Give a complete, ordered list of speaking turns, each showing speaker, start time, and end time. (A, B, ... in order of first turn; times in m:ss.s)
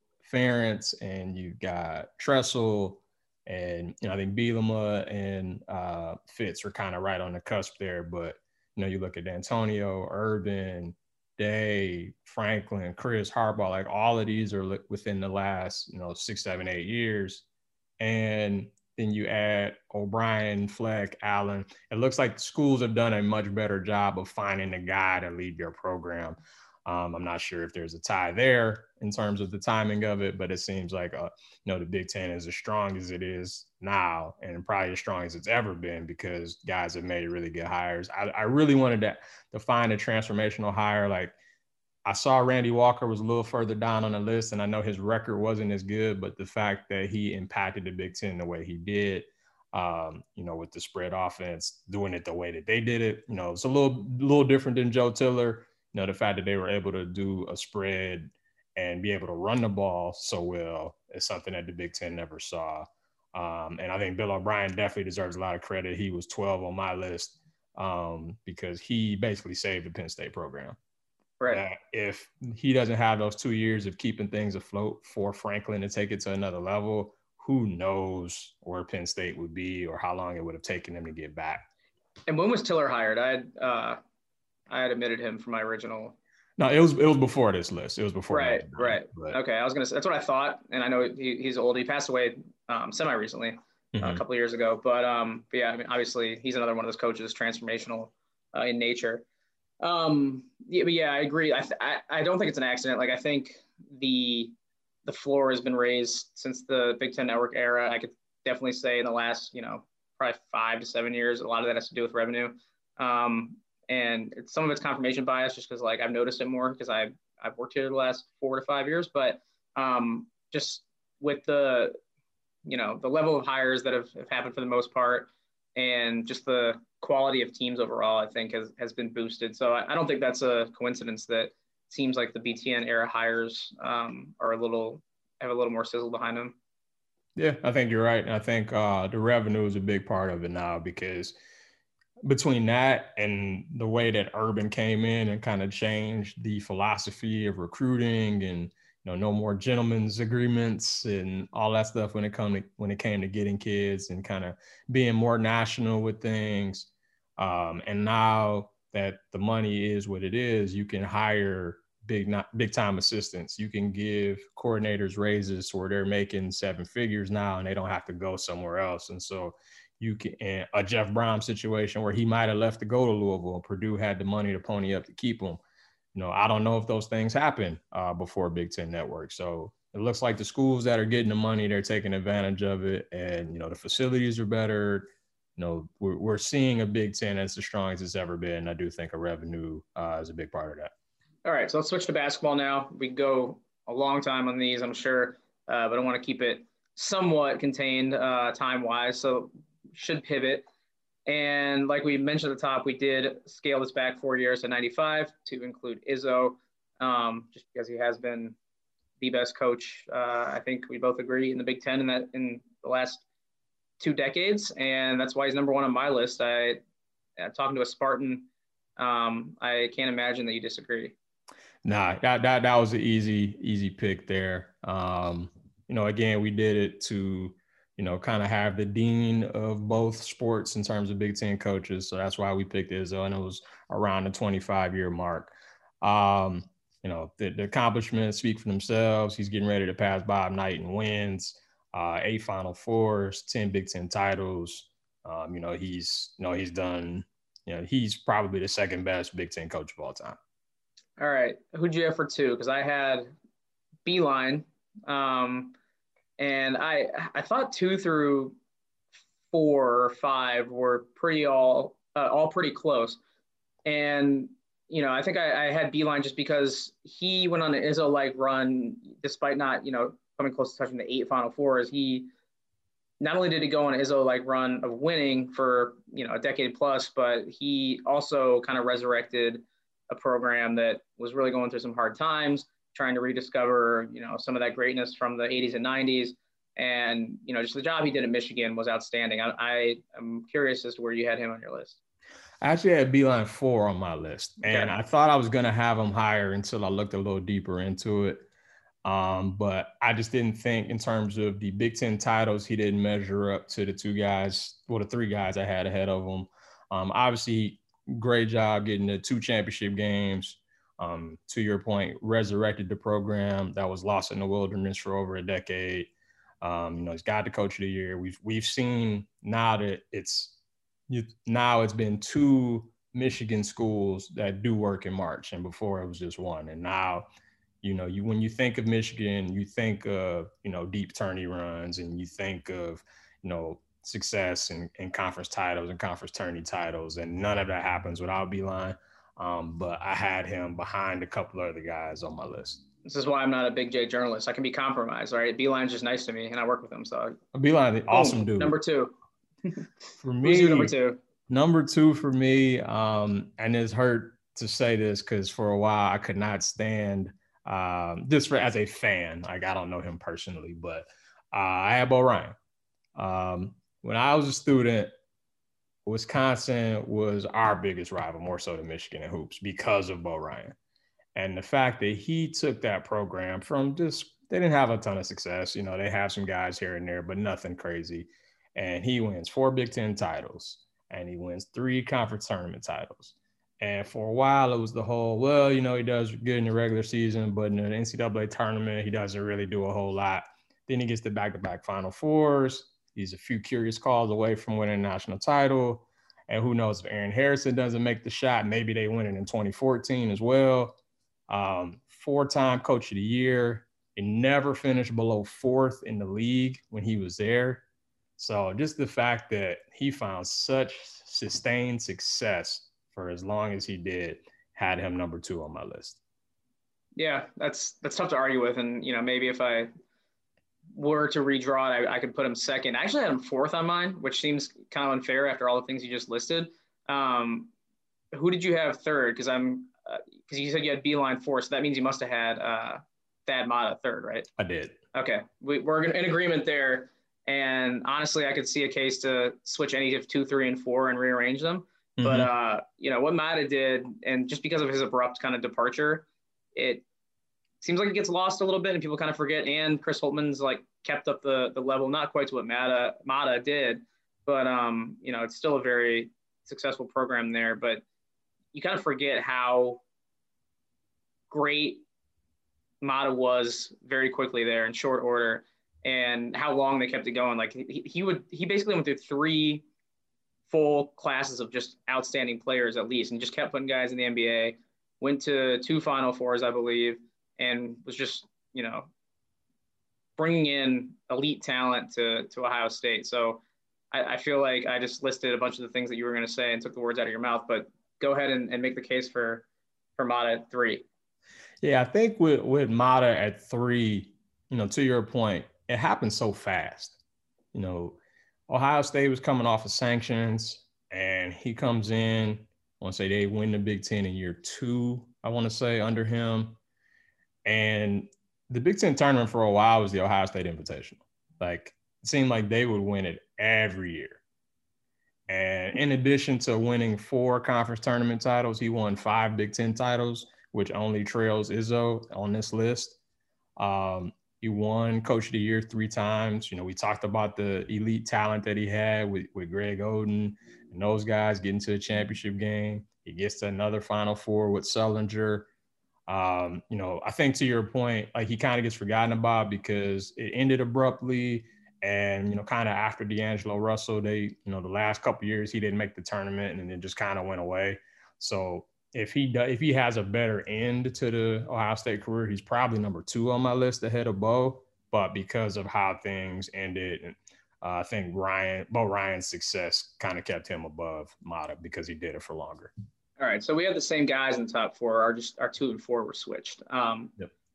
0:00.2-0:17.4 A
0:18.0-0:41.4 A
0:42.0-1:10.8 A
1:11.5-1:21.6 A
1:22.3-1:24.0 B
1:24.7-1:26.2 B
1:26.6-1:29.4 A
1:28.3-1:39.2 B
1:34.0-1:34.2 A
1:39.8-1:44.5 B
1:45.0-2:02.0 B
2:02.7-2:16.6 B
2:17.4-2:21.3 A
2:22.2-2:55.6 A
2:56.1-3:10.9 A
3:11.4-3:20.7 B
3:21.3-3:28.6 B
3:29.2-3:33.2 B
3:34.0-3:36.8 B
3:37.4-3:41.2 B
3:41.8-4:10.4 A
4:11.2-4:13.3 B
4:14.0-4:15.8 B
4:16.4-4:18.6 B
4:19.5-4:23.2 B
4:23.8-4:32.3 B
4:33.2-4:52.0 B
4:52.6-4:58.5 A
4:54.7-4:54.9 B
4:59.0-5:16.1 A
5:16.6-5:20.6 A
5:21.1-5:27.3 A
5:27.8-5:42.8 A
5:43.0-5:47.4 B
5:47.5-5:48.8 A
5:48.1-5:49.9 B
5:50.2-5:51.0 A
5:50.4-5:51.2 B
5:51.5-6:02.6 A
6:03.2-6:05.1 A
6:06.0-6:10.8 A
6:11.4-6:41.0 A
6:41.5-6:47.8 A
6:48.4-6:56.2 A
6:57.2-6:59.9 B
7:00.9-7:07.7 B
7:08.3-7:14.5 B
7:14.6-7:15.0 A
7:15.1-7:27.0 B
7:22.2-7:22.5 A
7:27.8-7:38.0 B
7:38.7-7:40.0 B
7:41.5-7:42.0 B
7:43.0-7:49.8 B
7:50.7-7:59.1 B
8:00.4-8:03.6 B
8:04.1-8:09.6 B
8:10.2-8:11.0 B
8:11.8-8:17.2 A
8:17.7-8:18.2 A
8:18.7-8:26.8 A
8:27.6-8:34.4 A
8:35.5-8:43.2 A
8:43.8-8:55.7 A
8:56.3-9:22.9 A
9:23.4-9:27.3 B